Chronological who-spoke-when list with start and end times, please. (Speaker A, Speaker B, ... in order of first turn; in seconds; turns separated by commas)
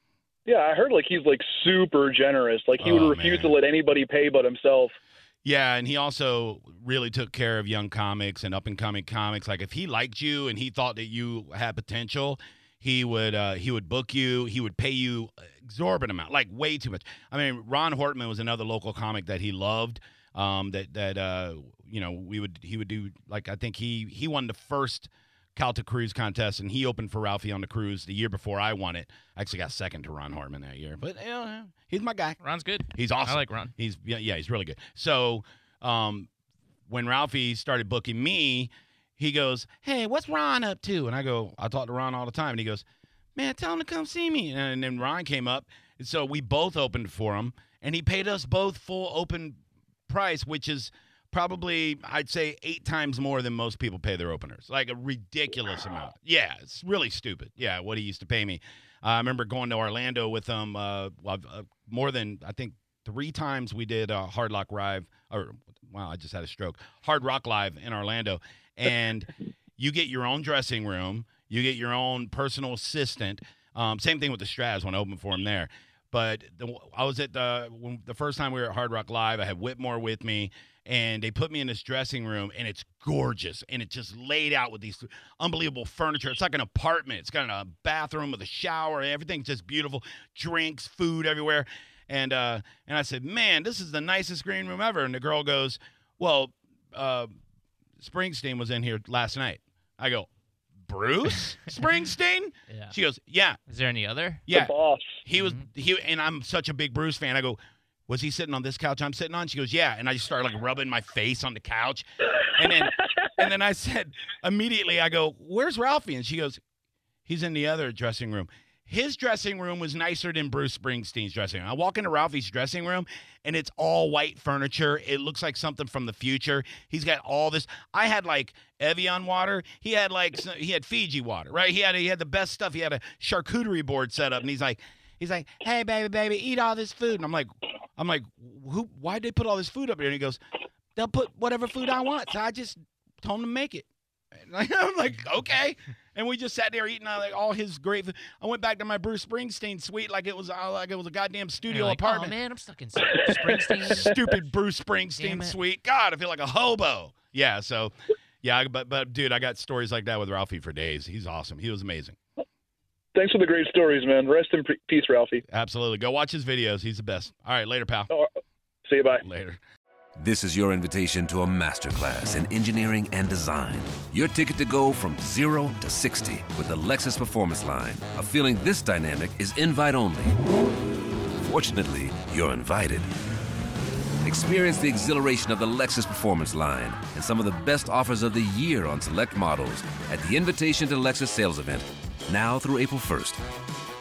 Speaker A: 0.5-5.0, Speaker B: 2.8-3.5, Speaker B: 5.4-36.3, Speaker C: 32.4-33.7, Speaker B: 36.9-97.3, Speaker B: 98.0-100.3, Speaker B: 100.8-103.6, Speaker C: 102.7-103.0, Speaker C: 103.7-104.4, Speaker B: 104.5-116.6, Speaker A: 104.5-105.2, Speaker C: 105.3-105.6, Speaker B: 117.2-140.4, Speaker B: 140.9-143.9, Speaker B: 144.4-152.3, Speaker C: 151.7-154.1, Speaker A: 153.1-154.0, Speaker B: 153.8-162.2, Speaker C: 155.2-155.6, Speaker A: 163.1-165.4, Speaker B: 165.5-168.1, Speaker A: 168.8-169.2, Speaker B: 169.2-169.6, Speaker D: 170.2-180.4, Speaker D: 181.4-183.1, Speaker D: 184.2-193.4